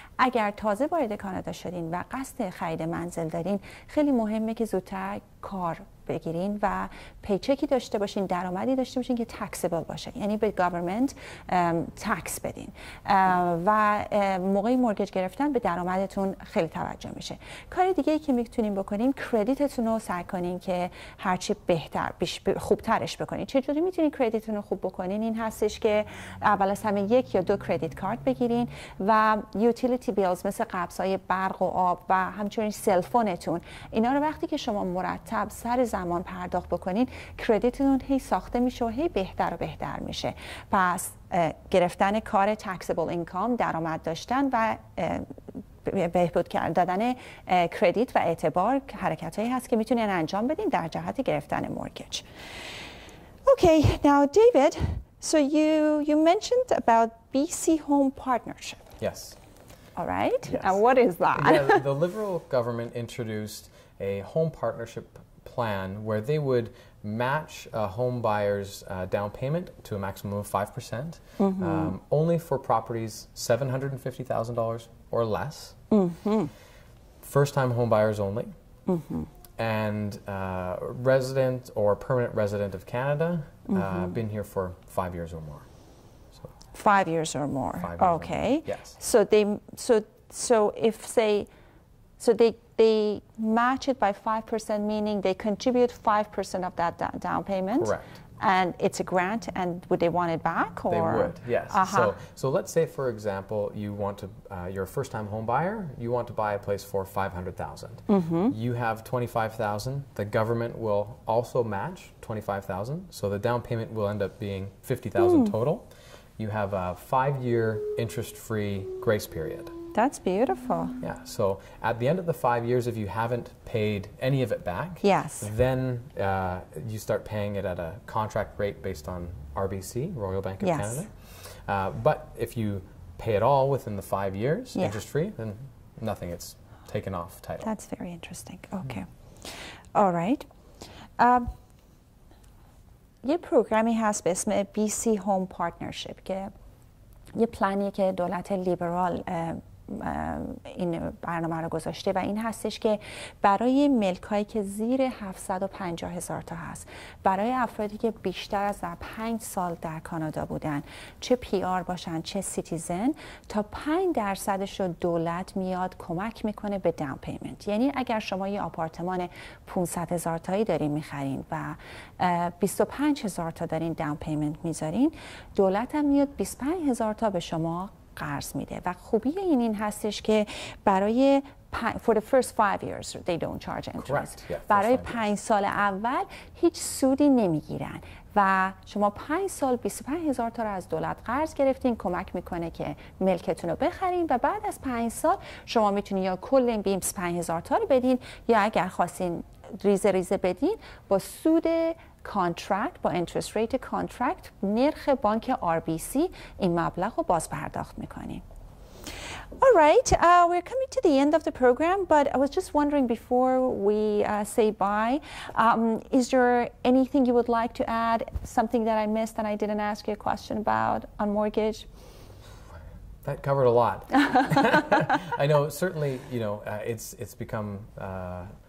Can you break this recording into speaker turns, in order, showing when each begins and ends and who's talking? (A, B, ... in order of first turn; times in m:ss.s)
0:00.2-0:52.2 A
0:53.5-0:58.8 A
0:59.0-0:59.4 B
1:00.0-1:01.8 A
1:00.5-1:00.8 B
1:01.3-1:15.8 B
1:11.4-1:11.9 A
1:15.9-1:16.5 A
1:17.2-1:18.5 B
1:18.9-1:19.3 A
1:19.6-1:25.7 B
1:23.7-1:24.1 A
1:26.7-1:31.5 A
1:27.8-1:29.0 B
1:32.2-1:42.2 A
1:37.8-1:38.2 B
1:40.9-1:55.9 B
1:48.1-1:48.5 A
1:55.2-1:55.5 A
1:56.4-1:59.7 B
2:00.0-2:01.0 A
2:01.0-2:17.7 B
2:05.0-2:05.5 A
2:10.6-2:11.1 A
2:17.6-2:20.5 A
2:21.2-2:21.5 A
2:23.2-2:26.5 A
2:27.4-3:28.4 A
3:04.0-3:05.3 B
3:29.6-3:41.9 A
3:43.2-3:48.5 B